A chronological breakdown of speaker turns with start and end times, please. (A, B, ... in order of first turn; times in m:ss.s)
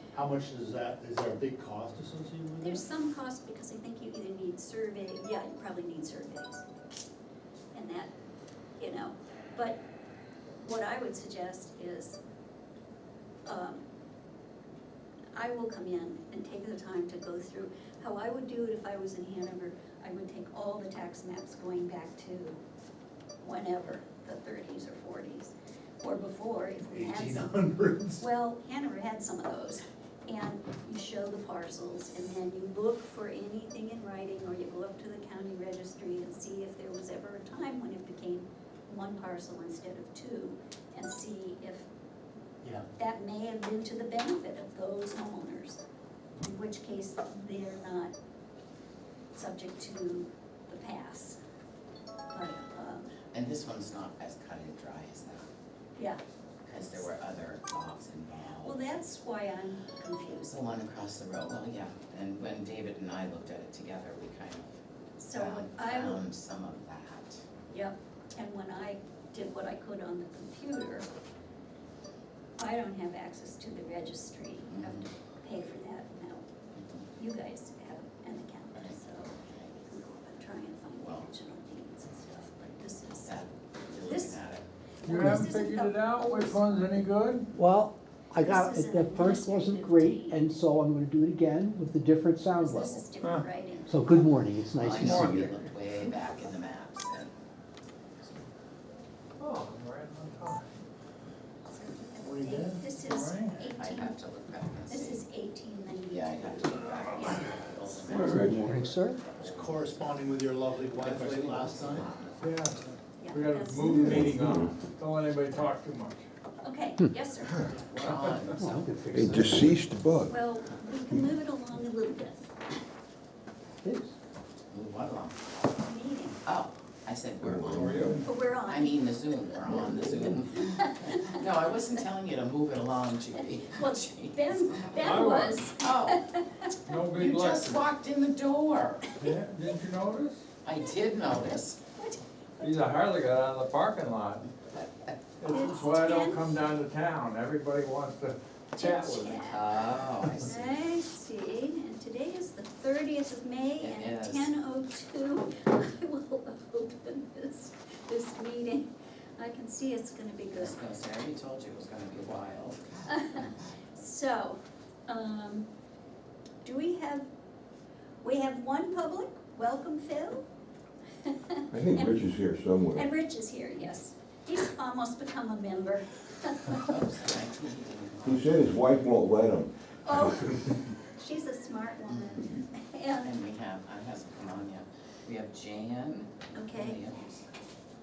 0:00.1-0:02.8 A
0:02.6-0:06.6 B
0:07.7-0:08.1 B
0:08.8-0:09.8 B
0:10.6-0:12.2 B
0:13.4-0:13.8 B
0:15.4-0:22.6 B
0:23.4-0:27.6 B
0:26.9-0:28.2 A
0:28.2-0:41.9 B
0:42.9-0:45.8 B
0:46.4-0:48.1 B
0:49.3-0:51.4 B
0:52.3-0:53.1 B
0:53.3-0:55.5 C
0:56.6-0:58.8 C
0:58.6-1:00.7 B
1:00.4-1:04.7 C
1:05.2-1:06.2 B
1:05.3-1:07.4 C
1:07.7-1:11.1 B
1:12.6-1:16.4 B
1:14.7-1:15.0 C
1:16.8-1:17.1 C
1:17.2-1:24.4 B
1:18.7-1:19.7 C
1:21.0-1:21.3 C
1:22.6-1:24.6 C
1:25.0-1:27.1 B
1:25.0-1:27.5 D
1:25.2-1:25.5 E
1:27.5-1:33.0 E
1:28.4-1:30.4 B
1:32.6-1:34.3 B
1:33.9-1:35.6 E
1:34.8-1:37.3 C
1:35.0-1:35.4 D
1:39.4-1:40.8 D
1:41.6-1:44.2 B
1:42.2-1:42.8 A
1:43.0-1:43.6 D
1:43.8-1:45.2 C
1:44.9-1:47.5 B
1:46.1-1:50.1 C
1:48.1-1:49.2 E
1:48.2-1:48.6 F
1:49.4-1:52.1 A
1:50.9-1:52.4 C
1:52.4-1:56.2 D
1:53.2-1:54.3 B
1:53.8-1:54.8 F
1:56.6-1:57.8 B
1:57.4-1:57.7 F
1:57.8-1:58.9 C
1:58.0-1:58.6 D
1:58.6-1:59.7 E
1:59.1-2:00.4 F
2:00.3-2:02.5 B
2:03.8-2:04.1 E
2:04.7-2:05.9 C
2:05.8-2:06.4 B
2:06.4-2:15.2 C
2:07.4-2:08.2 F
2:07.8-2:08.2 D
2:08.2-2:09.8 B
2:10.5-2:11.4 B
2:13.7-2:16.7 B
2:15.0-2:15.7 D
2:15.8-2:16.3 C
2:16.8-2:17.8 D
2:17.0-2:19.2 C
2:19.2-2:20.4 D
2:20.6-2:21.8 C
2:22.0-2:22.9 B
2:22.6-2:24.5 D
2:24.7-2:25.1 C
2:25.4-2:29.4 D
2:25.4-2:26.5 B
2:28.7-2:29.8 B
2:29.4-2:30.8 C
2:30.3-2:40.8 B
2:33.8-2:34.5 C
2:40.5-2:43.7 C
2:43.1-2:45.7 B
2:46.6-2:47.3 B
2:48.2-2:50.4 B
2:51.2-2:52.2 B
2:51.7-2:53.1 F
2:52.9-2:56.9 B
2:56.8-2:58.6 C
2:58.2-3:00.8 F
3:00.0-3:03.3 B
3:02.1-3:02.5 C
3:03.2-3:07.5 C
3:06.5-3:07.0 B